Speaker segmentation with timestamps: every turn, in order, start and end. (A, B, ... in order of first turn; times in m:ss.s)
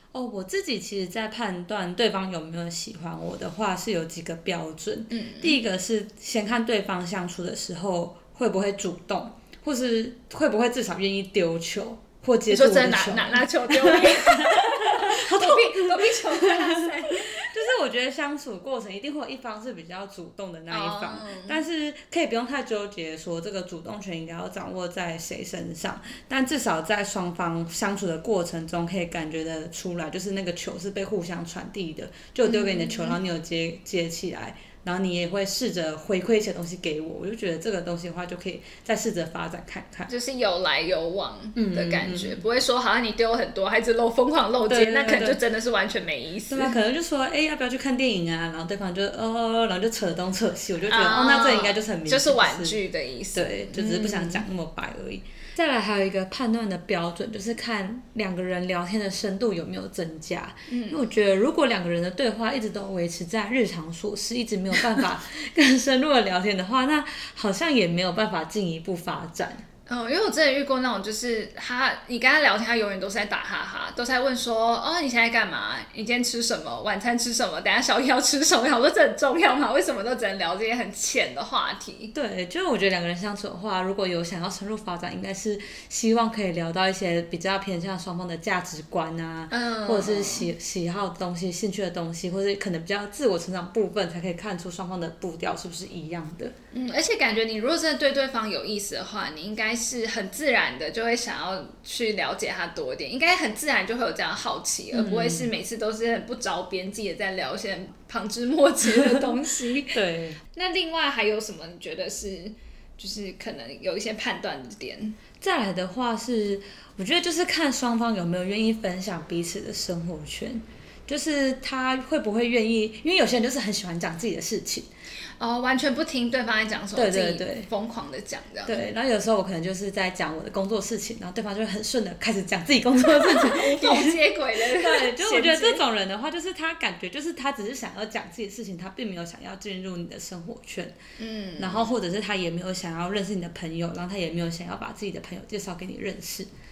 0:00.1-0:40.1 A
0:05.1-0:05.6 B
0:12.5-0:17.5 B
0:20.7-0:21.6 B
0:32.4-0:33.2 B
0:40.1-0:46.8 B
0:41.6-0:42.4 A
0:44.7-0:45.4 A
0:46.5-0:52.8 A
0:50.9-0:54.4 B
0:53.3-1:09.6 A
1:00.7-1:01.0 B
1:09.9-1:22.1 B
1:22.1-1:36.5 A
1:29.5-1:30.5 B
1:36.7-1:50.0 B
1:44.9-1:45.5 A
1:49.9-1:50.4 A
1:50.6-1:55.2 B
1:55.4-2:04.9 A
2:05.4-2:08.8 B
2:06.9-2:07.7 A
2:08.6-2:21.0 A
2:13.1-2:15.8 B
2:21.2-2:22.0 B
2:21.6-2:26.5 A